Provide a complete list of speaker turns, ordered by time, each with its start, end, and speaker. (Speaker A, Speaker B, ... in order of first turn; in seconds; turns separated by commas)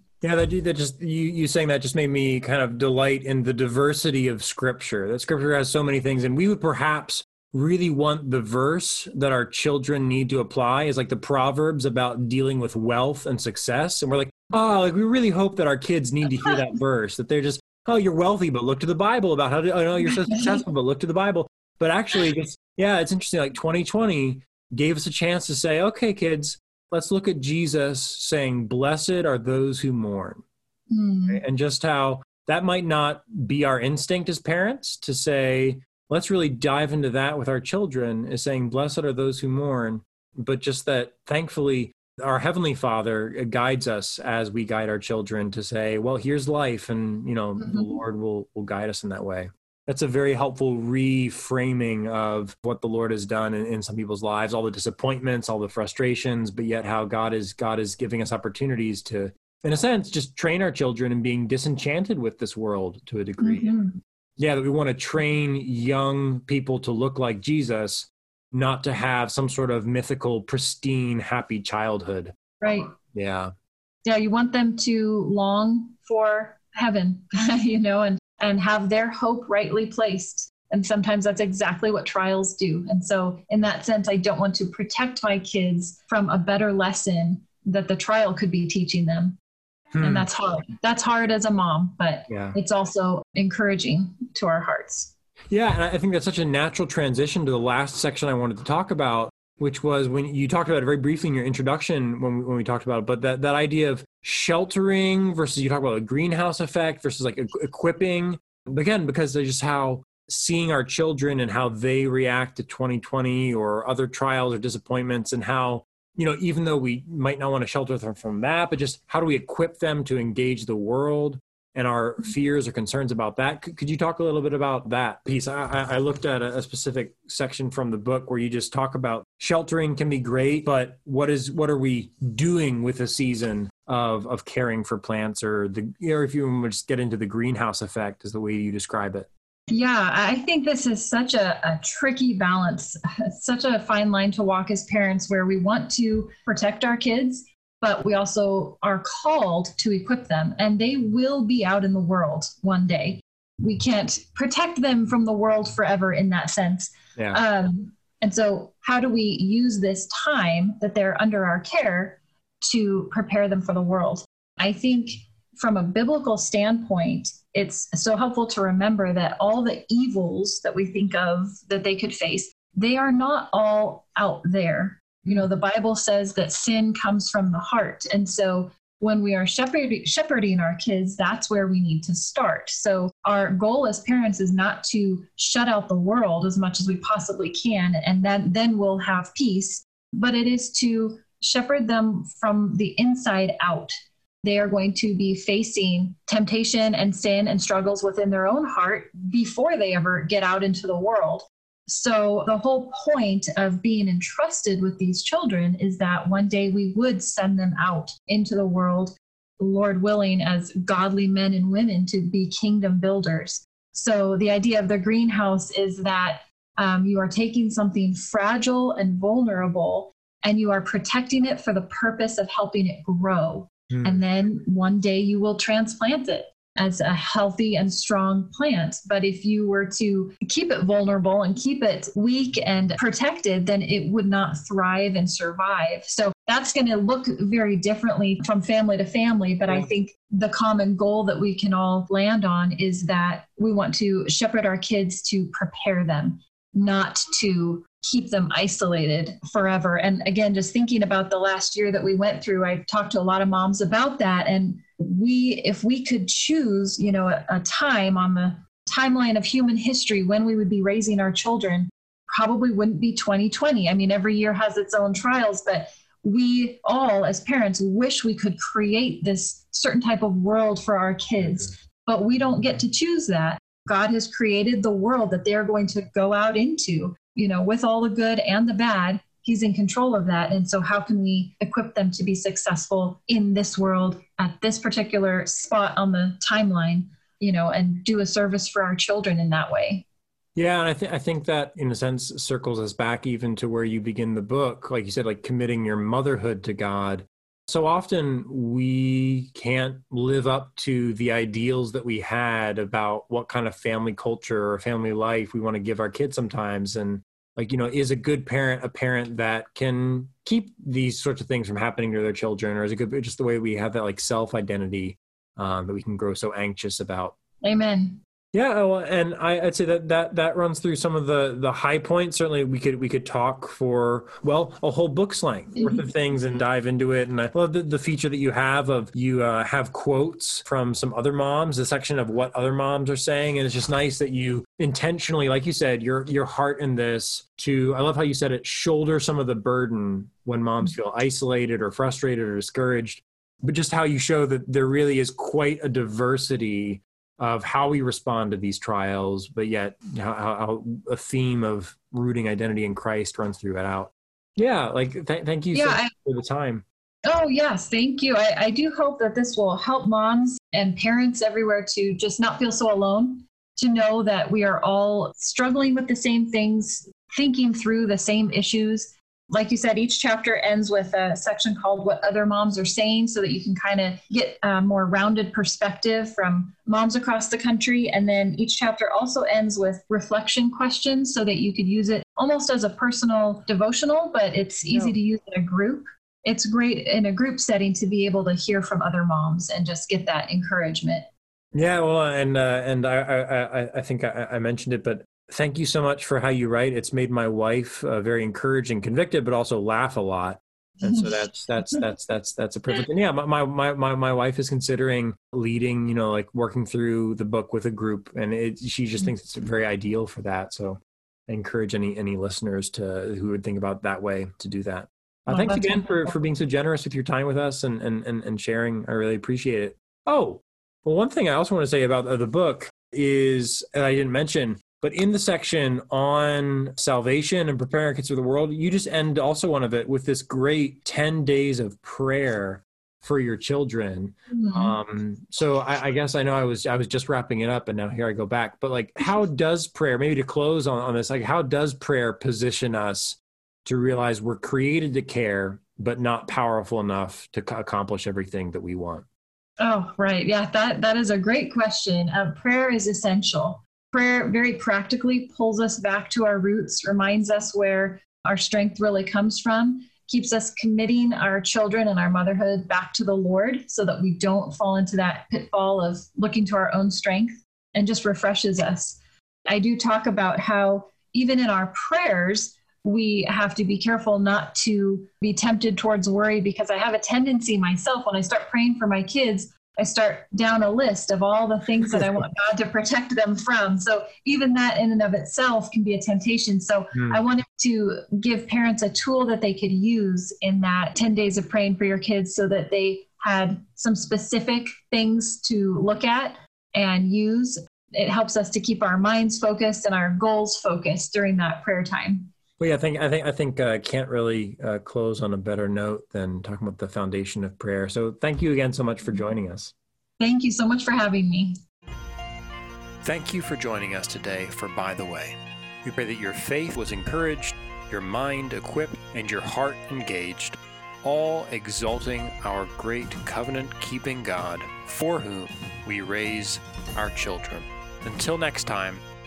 Speaker A: 0.2-30.4, Speaker B: 20.2-20.6, Speaker B: 30.9-31.4, Speaker A: 31.3-63.8, Speaker B: 47.6-48.0, Speaker B: 63.4-64.0, Speaker A: 64.4-72.3, Speaker B: 72.6-72.9, Speaker A: 72.9-73.5, Speaker B: 74.0-89.4, Speaker A: 89.9-90.3, Speaker B: 90.0-95.1, Speaker A: 92.3-92.6, Speaker A: 95.5-139.3, Speaker B: 139.7-193.9, Speaker A: 157.2-157.4, Speaker B: 194.4-290.1, Speaker A: 223.9-224.2, Speaker A: 290.6-317.4, Speaker B: 317.6-318.2, Speaker A: 318.5-356.9, Speaker B: 325.8-326.0, Speaker B: 355.7-356.1, Speaker B: 357.3-391.3, Speaker A: 384.9-385.2, Speaker A: 391.7-449.2, Speaker B: 401.0-402.0, Speaker B: 415.5-416.4, Speaker B: 434.5-435.0, Speaker B: 449.8-502.5, Speaker A: 487.1-487.4, Speaker A: 502.8-509.9, Speaker B: 510.4-511.8, Speaker A: 513.2-529.2